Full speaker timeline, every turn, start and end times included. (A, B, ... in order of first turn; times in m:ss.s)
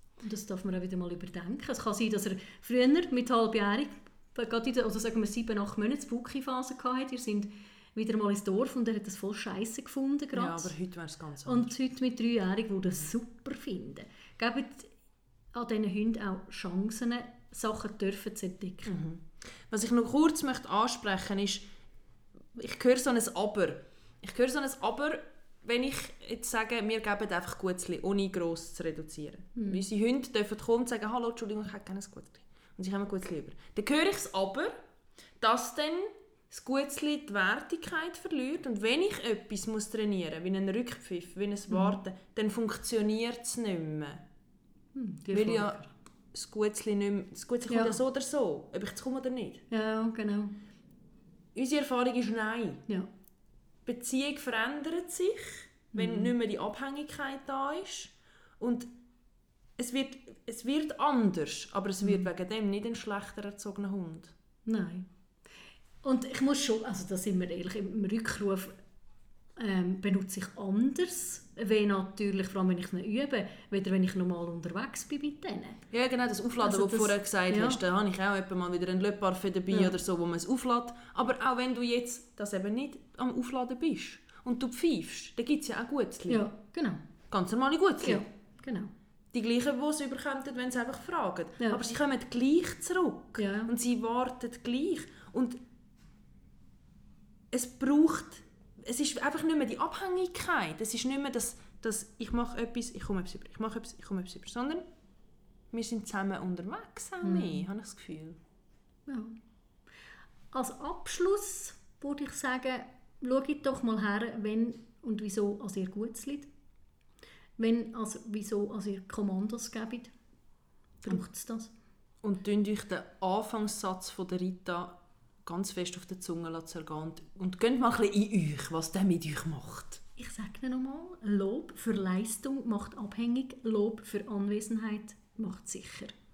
0:00.2-0:10.7 A
0:10.3-0:11.7 B
0:11.4-0:14.9 A
0:15.5-0:19.0 A
0:18.9-0:21.7 B
0:22.5-0:34.8 B
0:29.6-0:29.8 A
0:35.4-0:44.2 B
0:41.7-0:42.0 A
0:44.9-0:45.9 A
0:45.3-0:45.8 B
0:46.3-0:49.6 B
0:47.7-0:48.0 A
0:49.7-0:50.6 A
0:51.6-0:52.8 B
0:53.8-0:58.9 B
0:55.9-0:56.3 A
0:59.8-1:04.3 B
1:04.7-1:05.1 A
1:06.0-1:08.8 A
1:09.6-1:15.8 A
1:15.9-1:26.4 B
1:16.6-1:17.8 A
1:26.3-1:27.0 A
1:27.3-1:28.2 B
1:28.0-1:28.9 A
1:29.3-1:35.6 B
1:33.4-1:33.7 A
1:37.5-1:44.8 B
1:45.7-1:48.4 B
1:47.2-1:47.7 A
1:49.1-1:49.4 A
1:50.5-1:56.5 A
1:57.6-2:00.1 A
2:01.0-2:01.7 A
2:02.2-2:10.0 B
2:10.2-2:16.1 A